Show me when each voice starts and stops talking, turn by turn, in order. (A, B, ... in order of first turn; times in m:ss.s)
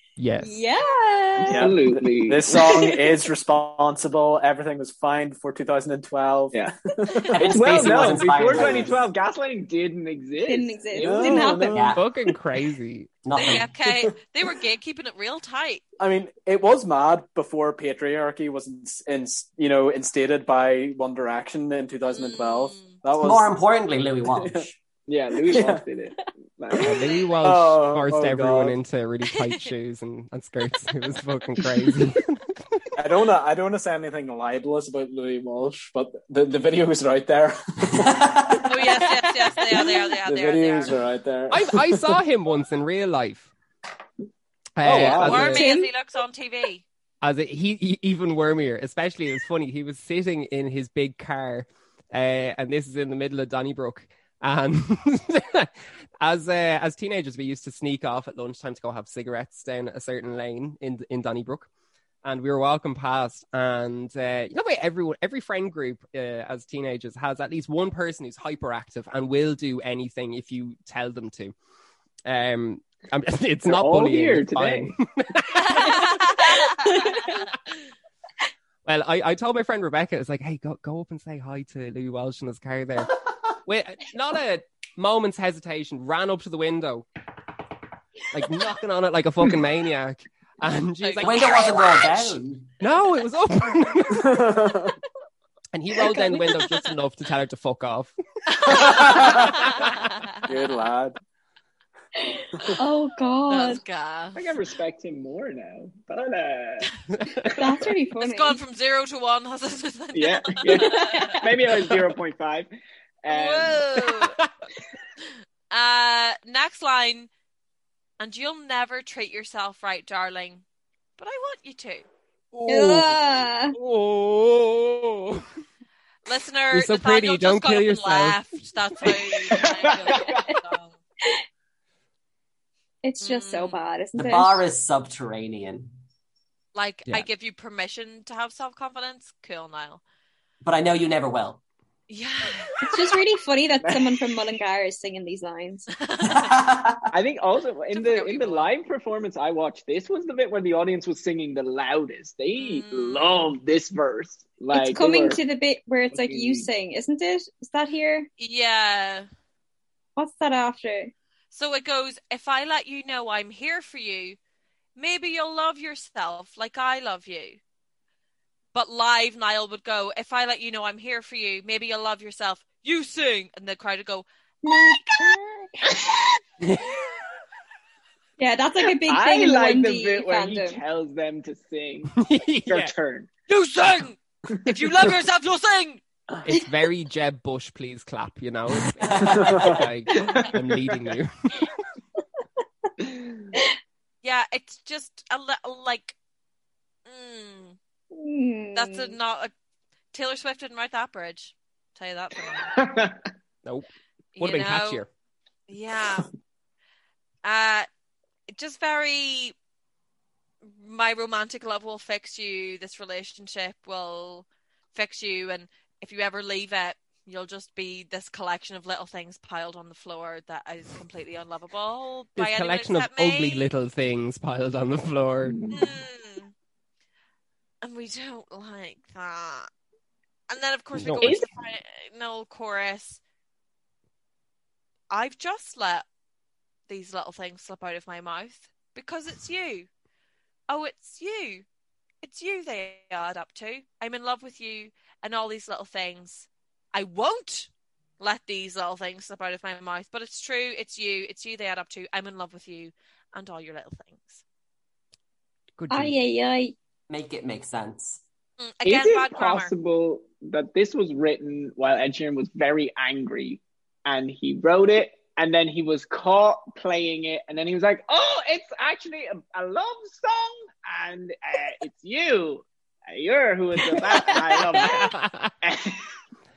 0:00.2-0:00.6 A
0:00.4-0:01.7 B
0:01.5-0:09.0 C
0:01.6-0:02.9 D
0:02.8-0:03.0 B
0:07.3-0:09.1 E
0:07.3-0:11.5 D
0:10.4-0:11.8 B
0:11.0-0:12.0 C
0:11.7-0:12.0 E
0:12.0-0:13.1 A
0:13.2-0:13.7 E
0:13.4-0:15.8 F
0:16.0-0:23.6 C
0:22.1-0:22.9 F
0:23.2-0:24.8 E
0:24.4-0:24.6 C
0:25.1-0:27.2 D
0:25.5-0:25.8 C
0:26.8-0:32.8 A
0:27.4-0:28.8 C
0:29.3-0:29.7 F
0:33.0-0:38.3 C
0:37.9-0:38.7 E
0:38.7-0:40.9 F
0:40.2-0:42.1 C
0:41.5-0:43.5 A
0:44.8-0:45.6 A
0:44.8-0:45.4 C
0:45.2-0:46.8 F
0:45.3-0:45.9 B
0:47.2-1:01.7 A
1:02.2-1:11.5 A
1:12.2-1:16.2 A
1:13.6-1:14.9 D
1:15.6-1:17.1 F
1:16.8-1:17.2 B
1:18.8-1:27.0 A
1:28.3-1:32.1 A
1:31.0-1:31.3 F
1:31.2-1:32.7 E
1:32.8-1:34.4 A
1:34.2-1:34.9 C
1:35.7-1:38.1 A
1:36.0-1:36.4 B
1:36.1-1:36.6 F
1:38.5-1:40.4 F
1:38.7-1:39.9 A
1:38.8-1:39.6 C
1:40.5-1:41.2 C
1:42.2-1:43.8 B
1:43.5-1:44.4 F
1:44.4-1:46.9 D
1:47.2-1:47.5 A
1:47.6-1:48.6 B
1:48.2-1:51.4 F
1:50.1-1:52.7 D
1:50.8-1:51.4 B
1:53.2-1:53.9 D
1:53.3-1:54.4 F
1:54.2-1:54.5 A
1:55.7-1:57.3 F
1:58.2-2:00.6 F
2:01.2-2:02.1 F
2:02.5-2:05.4 A
2:02.7-2:03.7 B
2:06.2-2:11.0 F
2:06.7-2:08.5 A
2:09.5-2:10.6 D
2:13.0-2:14.6 B
2:13.2-2:13.8 F
2:14.1-2:15.9 E
2:16.7-2:20.0 F
2:20.6-2:21.6 E
2:22.1-2:22.9 F
2:22.8-2:25.9 B
2:23.8-2:24.2 D
2:26.0-2:26.5 F
2:26.2-2:27.0 E
2:27.1-2:35.4 D
2:27.9-2:28.7 F
2:32.6-2:33.5 F
2:34.7-2:38.3 B
2:36.1-2:36.7 D
2:38.4-2:39.3 F
2:40.2-2:41.1 B
2:41.5-2:44.4 F
2:45.0-2:47.6 F
2:48.7-2:54.9 F
2:54.6-2:55.8 B
2:55.9-2:56.3 D
2:58.4-3:00.8 B
2:58.8-3:02.1 D
3:02.1-3:02.9 A
3:02.7-3:03.3 D
3:03.5-3:06.0 F
3:06.4-3:11.7 A
3:09.0-3:09.8 E
3:10.2-3:10.5 D
3:13.0-3:13.5 D
3:14.2-3:16.2 F
3:17.0-3:17.8 F
3:18.1-3:19.2 B
3:18.7-3:19.5 F
3:20.1-3:22.7 F
3:22.6-3:23.2 D
3:24.4-3:25.0 F
3:24.4-3:25.1 A
3:25.7-3:26.3 F
3:27.4-3:27.9 F
3:28.5-3:29.6 F
3:30.6-3:43.7 F
3:42.4-3:45.6 A
3:45.4-3:45.9 D
3:45.7-3:46.5 F
3:47.8-3:49.7 F
3:50.5-3:53.2 F
3:51.0-3:51.2 A
3:51.2-3:51.5 D
3:55.1-3:56.0 F
3:56.9-3:59.9 F
4:00.7-4:01.6 F
4:02.2-4:14.4 F
4:15.8-4:16.1 A
4:15.9-4:16.7 B
4:17.1-4:18.2 E
4:18.6-4:19.7 F
4:18.8-4:36.1 D
4:33.9-4:34.9 B
4:34.7-4:35.5 A